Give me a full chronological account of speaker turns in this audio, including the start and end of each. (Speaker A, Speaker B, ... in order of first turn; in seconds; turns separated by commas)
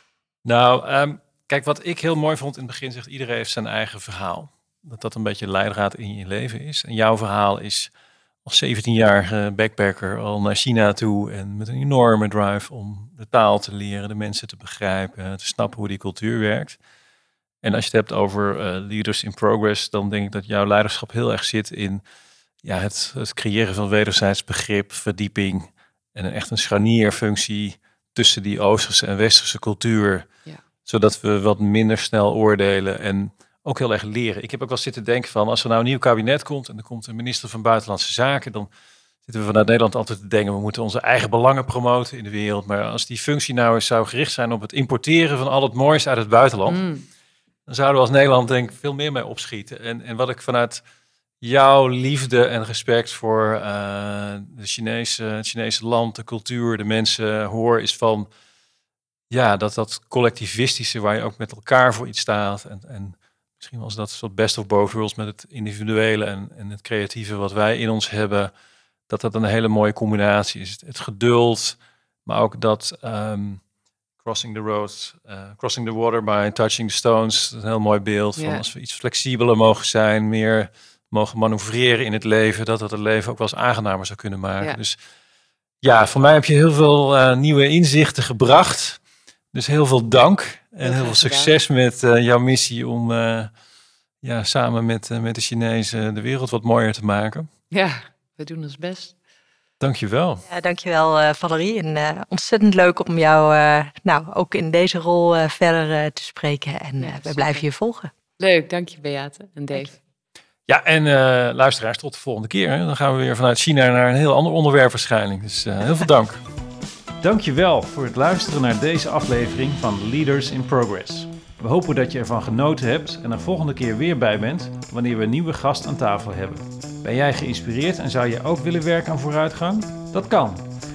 Speaker A: 0.5-7.9, Speaker A: 8.4-16.8, Speaker A: 17.6-22.0, Speaker A: 22.6-30.3, Speaker A: 30.9-38.7, Speaker A: 39.3-46.8, Speaker B: 46.7-47.0, Speaker A: 47.7-50.8, Speaker A: 51.4-58.3, Speaker A: 59.3-68.5, Speaker A: 69.1-73.6, Speaker A: 74.2-85.0, Speaker B: 78.4-78.6, Speaker A: 85.8-89.0, Speaker A: 89.5-93.5, Speaker B: 90.8-91.6, Speaker A: 94.2-97.5, Speaker B: 97.7-99.1, Speaker A: 99.8-100.5, Speaker C: 100.5-108.1, Speaker B: 107.0-107.7, Speaker B: 108.4-110.0, Speaker A: 110.7-116.4, Speaker A: 117.2-130.7